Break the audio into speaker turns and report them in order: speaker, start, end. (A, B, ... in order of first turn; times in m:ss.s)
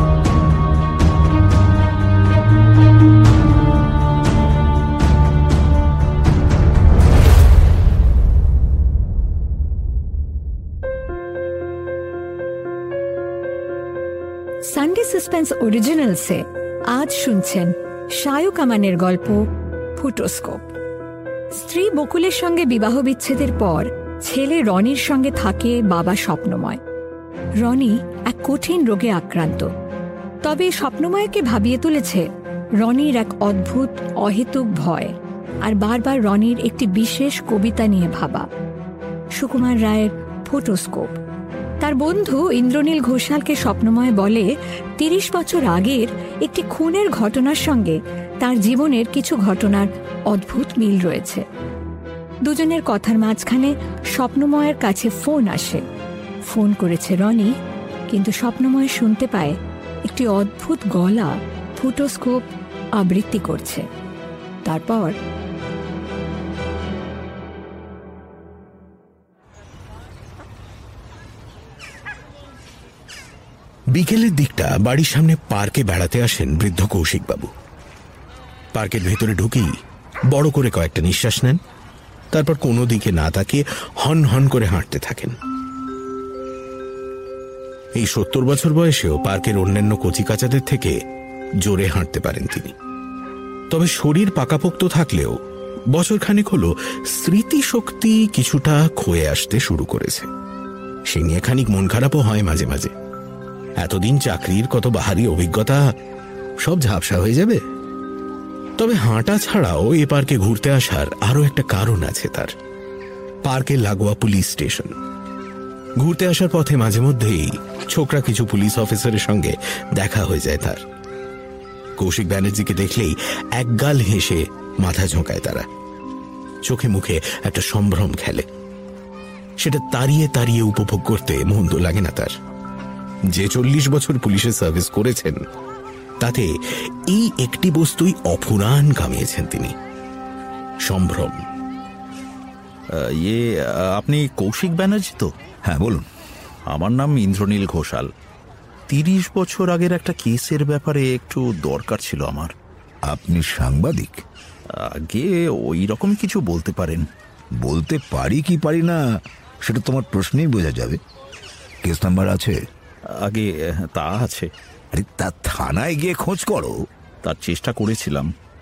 0:14.7-0:16.4 A
0:16.9-0:19.4 A
0:20.0-0:20.6 A
0:21.6-0:26.8 A
0:27.6-0:29.7 A
0:30.4-0:32.2 A
0:32.8-0:35.1 A
0:35.6-0:38.4 A
0:39.4-0:41.1 A
0:41.8-0:44.5 A
0:45.0-0:51.4 A
0:52.4-0:55.8 A
0:56.5-0:57.5 A
0:58.1-1:02.4 A
1:03.0-1:03.8 A
1:04.6-1:05.1 A
1:13.9-1:17.5 B
1:18.7-1:19.7 B
1:20.3-1:21.6 B
1:22.3-1:25.4 B
1:28.0-1:31.0 B
1:31.6-1:32.7 B
1:33.7-1:35.4 B
1:35.9-1:40.3 B
1:41.1-1:42.9 B
1:43.8-1:45.8 B
1:46.6-1:47.6 B
1:48.8-1:52.5 B
1:53.4-1:54.9 B
1:56.0-2:00.8 B
2:02.0-2:05.7 B
2:06.6-2:08.5 B
2:09.6-2:12.3 B
2:13.3-2:15.4 B
2:16.2-2:16.5 B
2:17.1-2:19.7 B
2:20.8-2:21.4 B
2:22.9-2:25.3 C
2:25.7-2:26.0 D
2:26.7-2:28.1 C
2:28.9-2:32.5 C
2:33.1-2:34.2 D
2:34.7-2:37.0 C
2:37.6-2:39.0 D
2:39.6-2:41.0 D
2:41.8-2:42.6 D
2:43.1-2:44.5 C
2:44.9-2:46.7 D
2:47.2-2:48.3 C